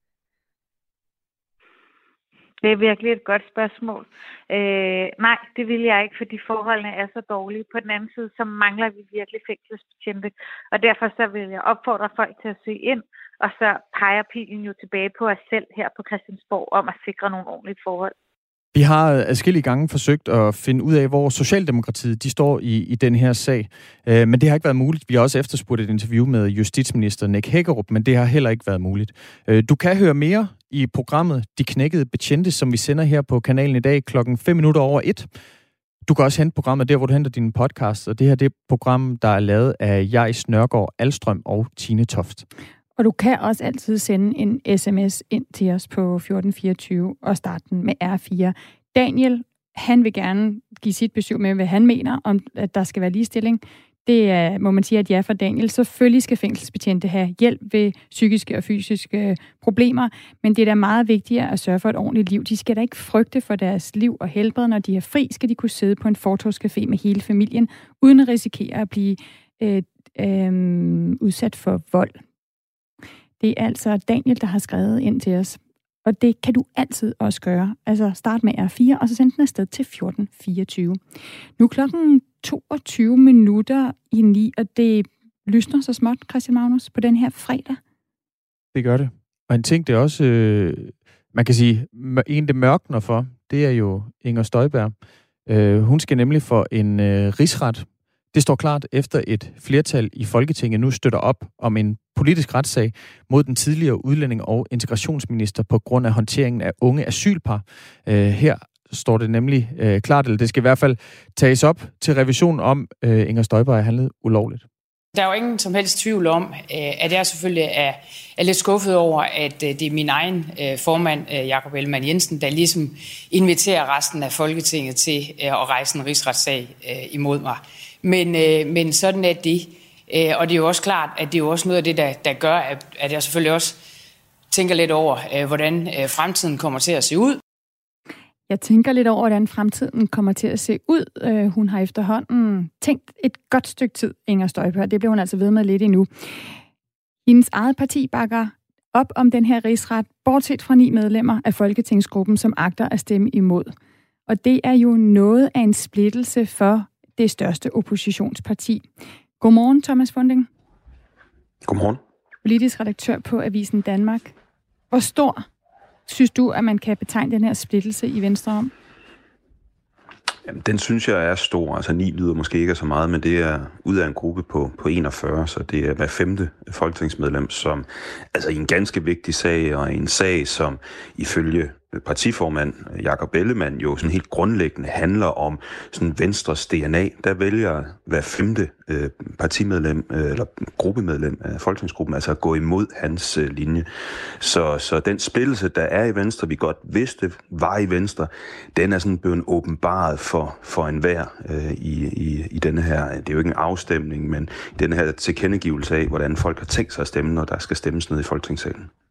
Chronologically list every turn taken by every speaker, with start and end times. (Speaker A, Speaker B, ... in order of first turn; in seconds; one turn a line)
Speaker A: 2.6-18.1
Speaker B: 18.7-35.3
Speaker B: 36.0-42.5
Speaker C: 43.0-72.2
Speaker C: 73.4-81.0
Speaker C: 81.6-87.8
Speaker B: 88.7-94.9
Speaker B: 95.5-114.6
Speaker D: 115.1-133.8
Speaker D: 134.5-137.4
Speaker C: 138.5-146.1
Speaker C: 147.2-153.7
Speaker C: 154.3-158.9
Speaker C: 159.4-160.5
Speaker E: 161.6-162.0
Speaker C: 162.4-164.3
Speaker C: 164.9-165.4
Speaker C: 166.1-168.7
Speaker E: 170.4-193.9
Speaker E: 194.4-208.9